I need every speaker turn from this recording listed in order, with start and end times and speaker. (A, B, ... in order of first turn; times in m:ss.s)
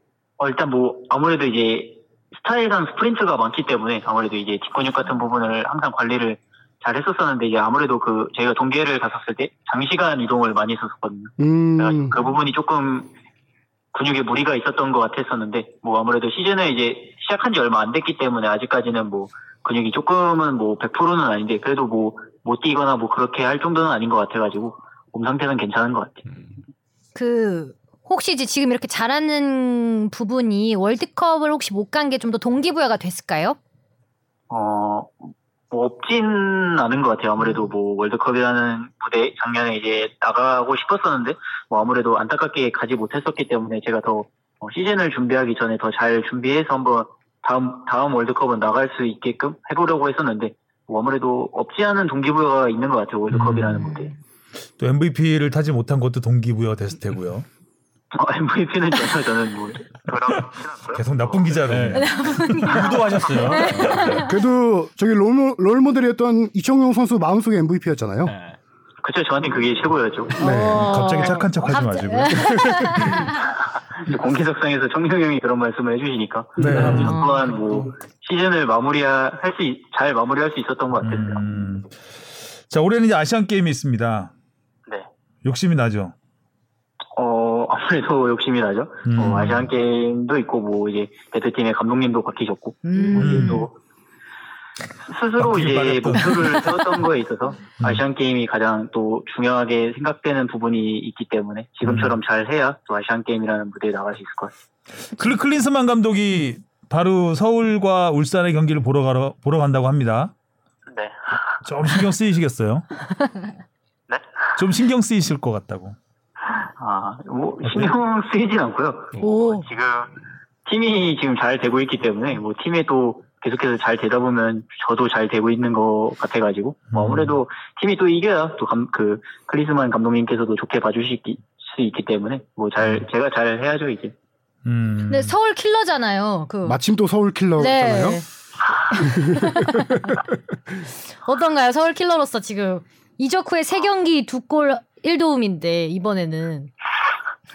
0:00.4-0:13.1 A
0:11.4-0:12.2 B
0:13.9-0:26.2 A
0:27.1-0:33.6 C
0:34.5-0:54.1 A
0:53.3-0:53.8 D
0:54.8-0:57.4 D
0:58.1-1:01.6 A
1:00.9-1:03.8 D
1:01.6-1:04.3 E
1:01.9-1:02.9 C
1:03.4-1:04.3 C
1:04.1-1:08.3 B
1:08.2-1:08.6 E
1:09.0-1:10.4 A
1:10.3-1:11.0 B
1:10.4-1:13.5 C
1:10.7-1:12.9 D
1:12.4-1:13.0 B
1:13.4-1:21.5 A
1:16.6-1:17.1 D
1:16.6-1:17.8 E
1:16.6-1:17.0 B
1:21.0-1:21.9 D
1:22.7-1:24.3 D
1:25.4-1:26.1 D
1:27.2-1:33.7 A
1:29.0-1:29.7 D
1:32.8-1:33.6 C
1:33.2-1:33.6 D
1:35.0-1:44.5 A
1:35.4-1:36.9 D
1:41.8-1:42.1 D
1:45.1-1:50.3 D
1:50.9-1:51.6 A
1:51.6-1:52.8 D
1:54.1-1:54.5 A
1:54.6-1:56.0 D
1:56.6-2:00.1 A
1:59.2-1:59.6 C
2:00.6-2:14.1 A
2:06.9-2:07.4 D
2:14.6-2:15.3 D
2:15.1-2:16.8 C
2:16.6-2:18.2 B
2:17.6-2:18.2 C
2:18.9-2:20.2 C
2:19.0-2:19.7 B
2:21.2-2:26.7 C